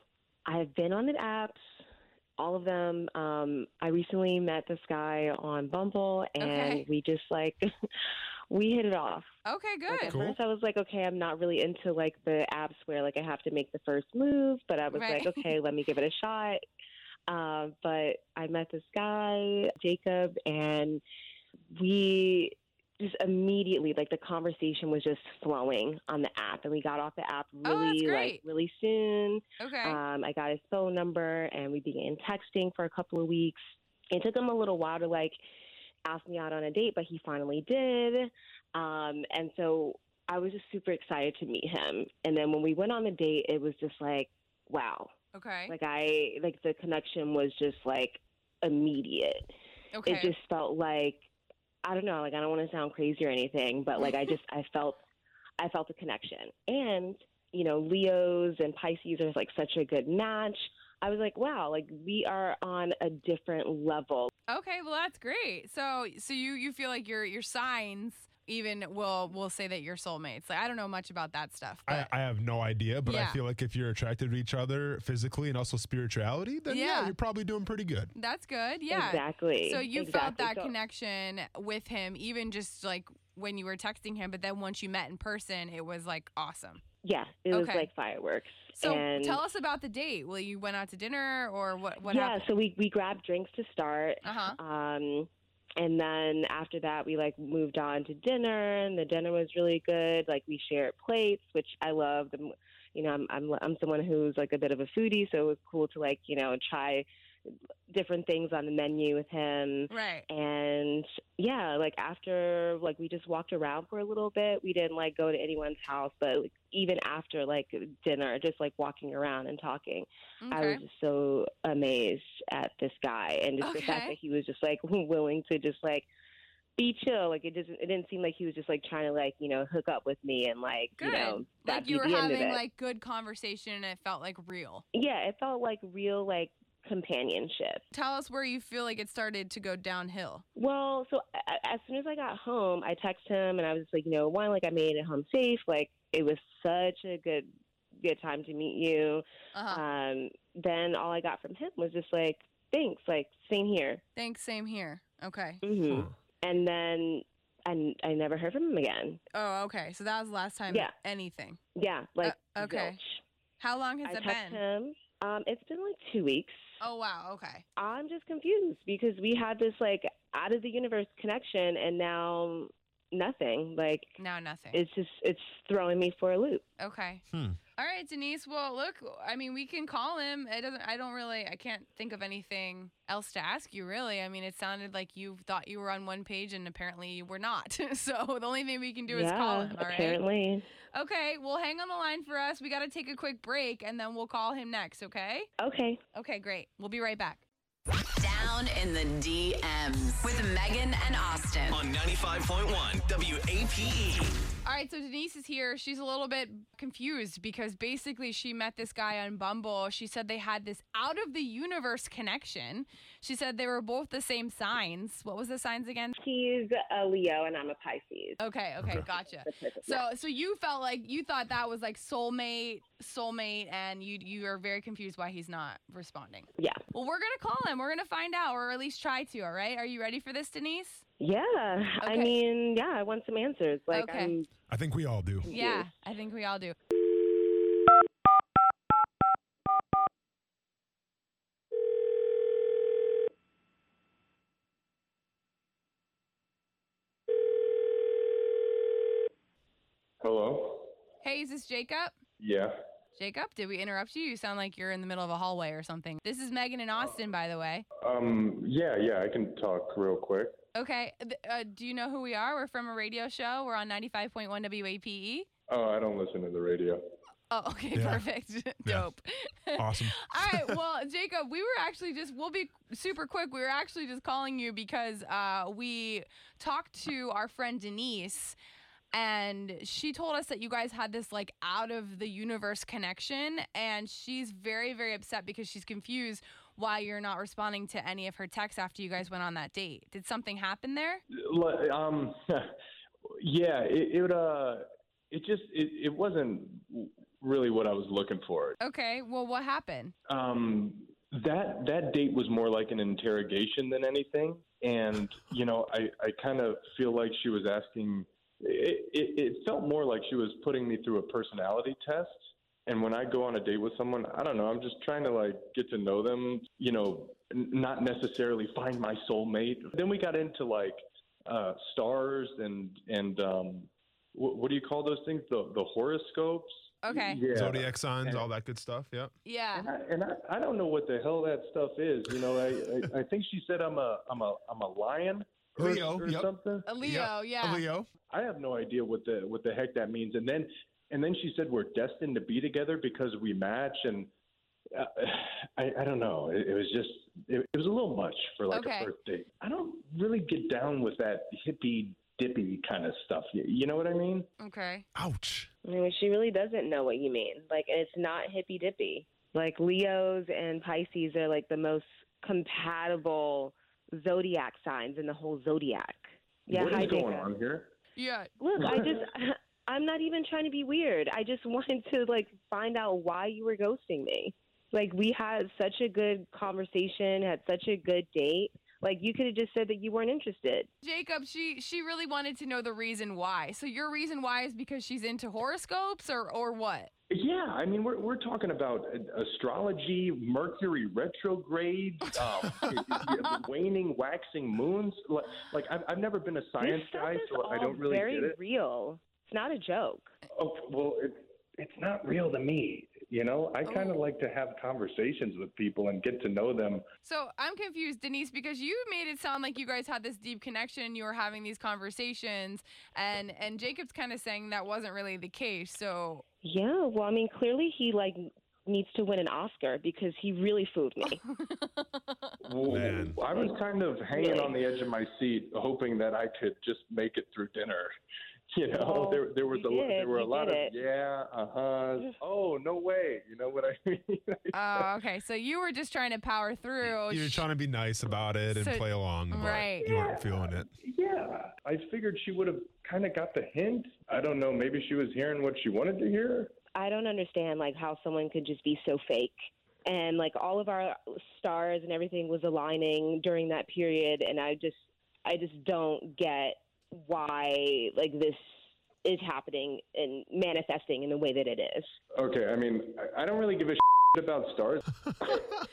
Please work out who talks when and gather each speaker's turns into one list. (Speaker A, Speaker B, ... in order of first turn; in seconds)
Speaker A: 0.5-1.6, 2.4-7.7, 8.5-9.3, 9.9-16.6, 17.3-21.0, 21.7-33.6, 34.1-35.4, 36.0-45.1, 45.7-49.5, 50.0-51.2, 51.8-55.0, 55.6-64.3, 78.9-80.7, 87.0-89.4, 92.0-107.0, 107.9-126.1, 126.8-132.6, 134.9-137.8, 140.6-154.0, 155.6-159.2, 161.7-163.2, 164.0-166.6, 167.8-174.2, 174.7-176.6, 189.1-190.6, 195.6-196.0, 216.2-218.4, 219.4-220.0, 231.2-234.5, 235.4-235.8, 355.8-367.5, 368.6-380.9, 396.8-400.3, 416.6-421.4, 424.3-424.8, 428.9-430.9, 446.9-449.5, 450.1-458.6, 459.2-462.1
Speaker B: 6.4-6.8, 9.4-10.2, 14.9-15.5, 27.6-28.4, 29.6-30.0, 45.3-45.7, 49.9-50.3, 64.5-72.1, 73.0-73.4, 76.7-77.2, 78.1-86.8, 87.5-87.9, 88.8-92.5, 94.2-94.6, 109.9-110.2, 120.4-120.8, 123.6-124.2, 131.0-134.8, 137.9-140.4, 149.5-149.8, 154.1-155.6, 159.3-161.6, 162.2-163.0, 163.6-164.6, 166.8-167.6, 174.2-174.8, 176.8-177.2, 177.8-190.2, 190.9-195.5, 196.1-197.4, 204.6-216.2, 218.4-231.0, 232.0-232.3, 233.9-234.3, 235.5-236.8, 251.2-252.1, 253.2-257.8, 260.7-265.5, 267.5-278.6, 279.1-291.2, 298.8-300.1, 327.0-327.4, 329.4-329.9, 336.9-337.8, 348.7-349.1, 354.6-355.1, 368.1-368.5, 381.0-387.1, 403.8-404.2, 407.2-416.4, 421.6-422.5, 434.7-437.6, 438.7-440.1
Speaker C: 10.0-10.4, 71.9-78.1, 177.3-177.6, 234.7-235.5, 267.9-268.2, 269.8-270.8, 327.5-329.3, 335.8-338.1, 355.1-355.7, 422.9-423.4, 437.0-440.9
Speaker D: 198.2-201.8
Speaker E: 201.7-204.3
Speaker F: 250.2-250.9, 252.4-252.7, 258.0-260.6, 265.7-267.0, 291.3-292.7, 293.4-298.8, 300.3-328.5, 329.7-336.9, 338.3-344.3, 344.9-354.5, 366.7-367.9, 368.8-369.2, 387.3-398.6, 400.5-407.0, 422.6-428.1, 428.7-435.1, 440.0-446.7, 462.3-465.6